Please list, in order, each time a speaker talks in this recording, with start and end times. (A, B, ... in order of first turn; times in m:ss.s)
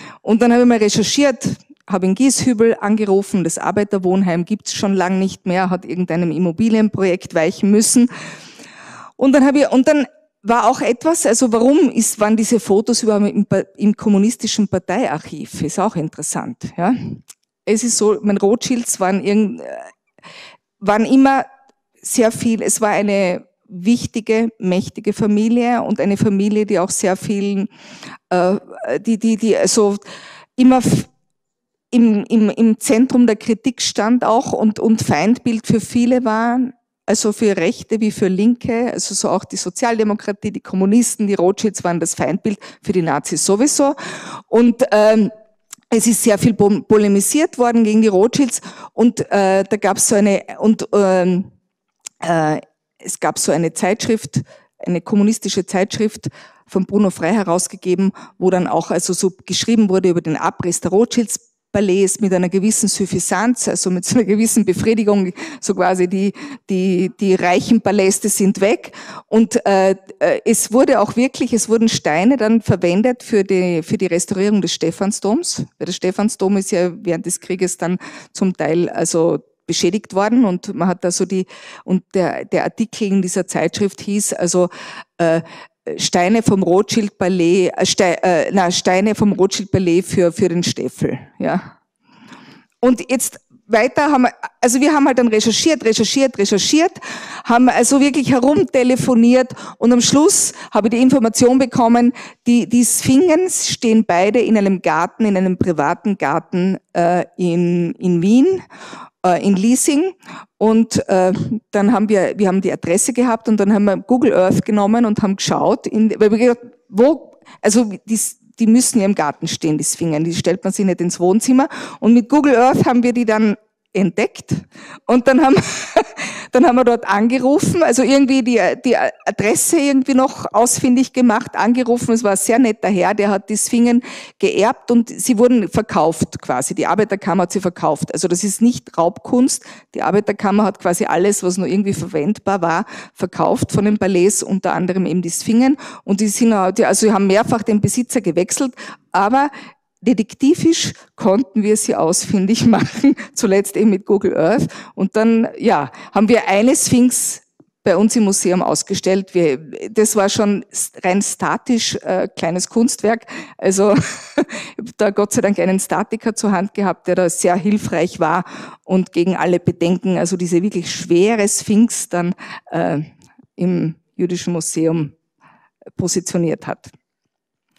0:00.2-0:08.1 A
0:09.2-0:19.9 A
0:20.8-0:21.5 A
0:22.0-0:27.7 A
0:28.3-0:30.0 A
0:30.6-0:31.1 A
0:31.9-0:45.3 A
0:45.9-0:51.5 A
0:52.2-1:31.7 A
1:32.8-1:48.6 A
1:49.2-2:55.1 A
2:56.0-2:56.9 A